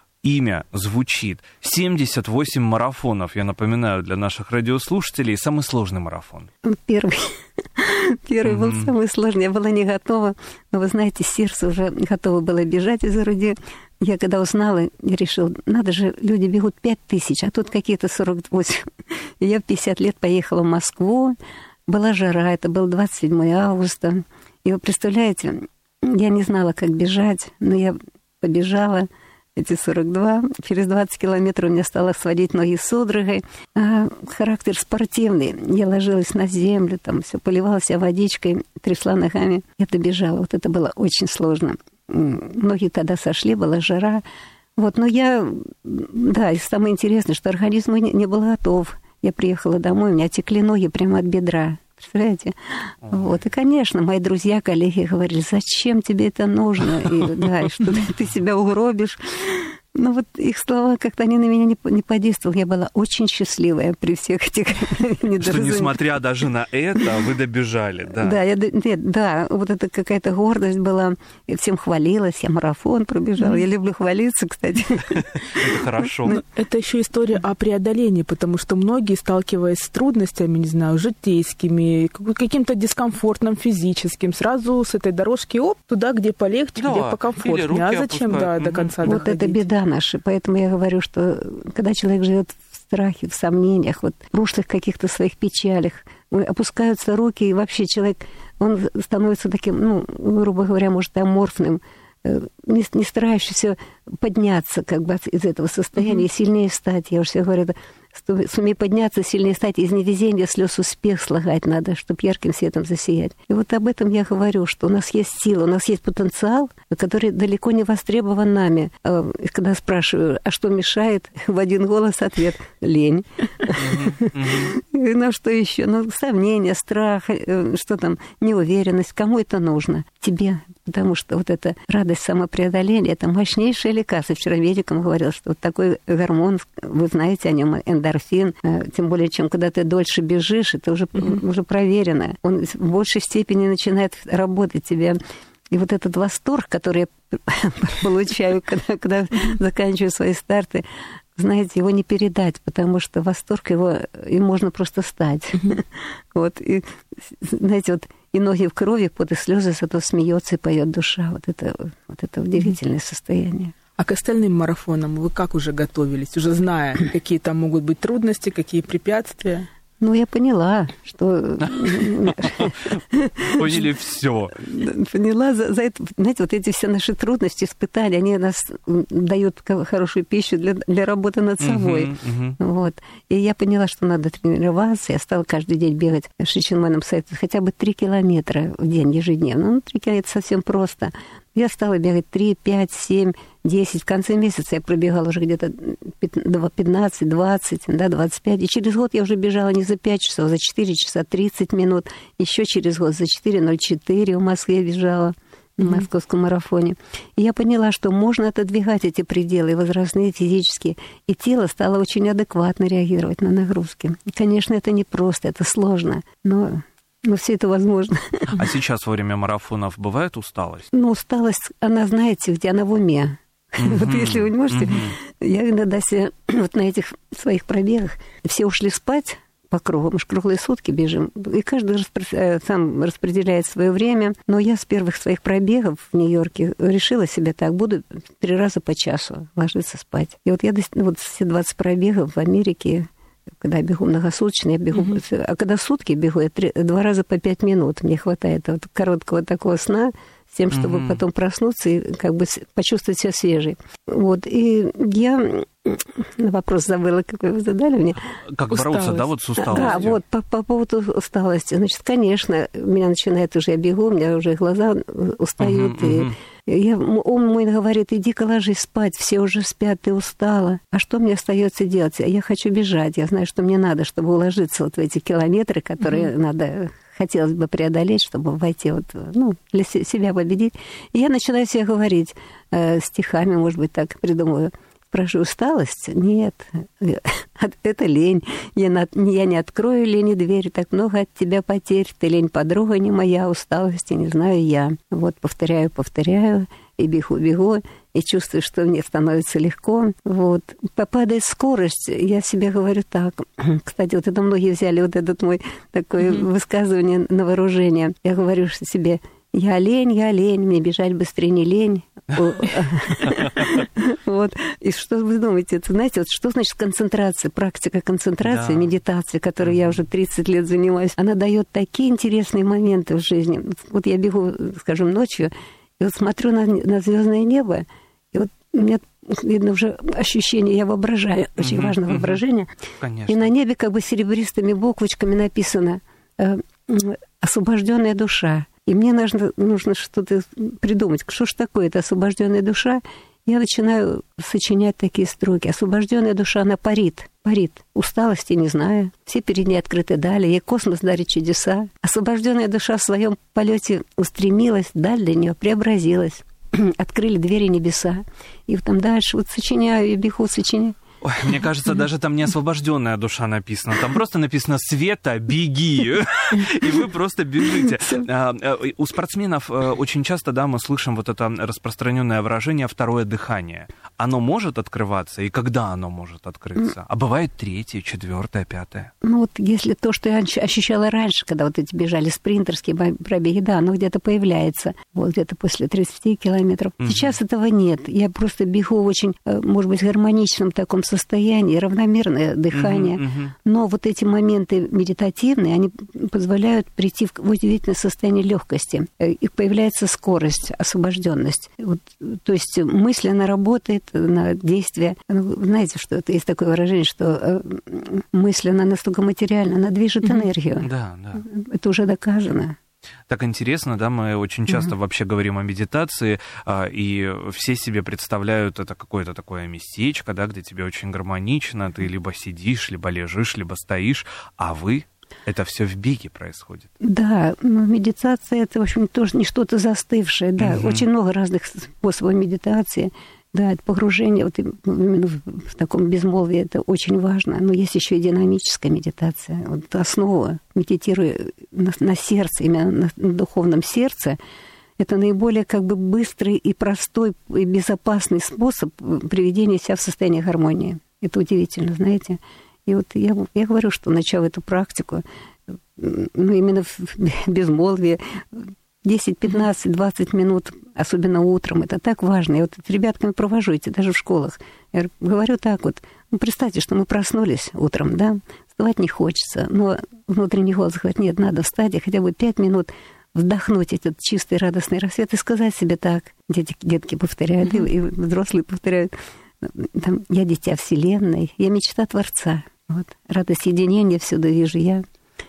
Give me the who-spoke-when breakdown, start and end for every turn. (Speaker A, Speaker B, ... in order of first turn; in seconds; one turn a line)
Speaker A: 0.2-6.5
Speaker B: 6.6-18.8
Speaker A: 8.4-8.9
Speaker B: 19.4-21.3
Speaker B: 21.9-44.2
Speaker B: 44.8-52.5
Speaker A: 53.0-53.4
Speaker B: 53.1-66.0
Speaker A: 65.4-68.4
Speaker B: 68.2-75.2
Speaker A: 75.5-76.4
Speaker C: 76.3-89.6
Speaker A: 86.8-89.1
Speaker B: 89.0-145.2
Speaker A: 123.8-124.7
Speaker B: 145.7-150.8
Speaker B: 151.3-163.7
Speaker C: 164.0-169.7
Speaker B: 170.0-173.6
Speaker A: 171.6-174.6
Speaker B: 174.6-218.5
Speaker A: 181.6-182.6
Speaker A: 218.6-220.9
Speaker B: 220.9-243.1
Speaker A: 223.8-225.1
Speaker B: 243.6-258.2
Speaker A: 250.7-251.2
Speaker A: 258.5-260.2
Speaker C: 258.7-260.1
Speaker B: 259.6-332.7
Speaker A: 265.6-266.3
Speaker A: 318.4-318.9
Speaker A: 331.6-332.4
Speaker A: 333.0-333.5
Speaker B: 333.3-360.9
Speaker A: 361.2-379.1
Speaker B: 379.2-410.9
Speaker A: 387.0-387.4
Speaker A: 392.7-393.5
Speaker A: 410.8-411.4
Speaker B: 411.4-412.8
Speaker A: 413.3-426.9
Speaker B: 427.0-444.4
Speaker A: 430.6-431.0
Speaker B: 445.0-455.2
Speaker B: 456.0-485.0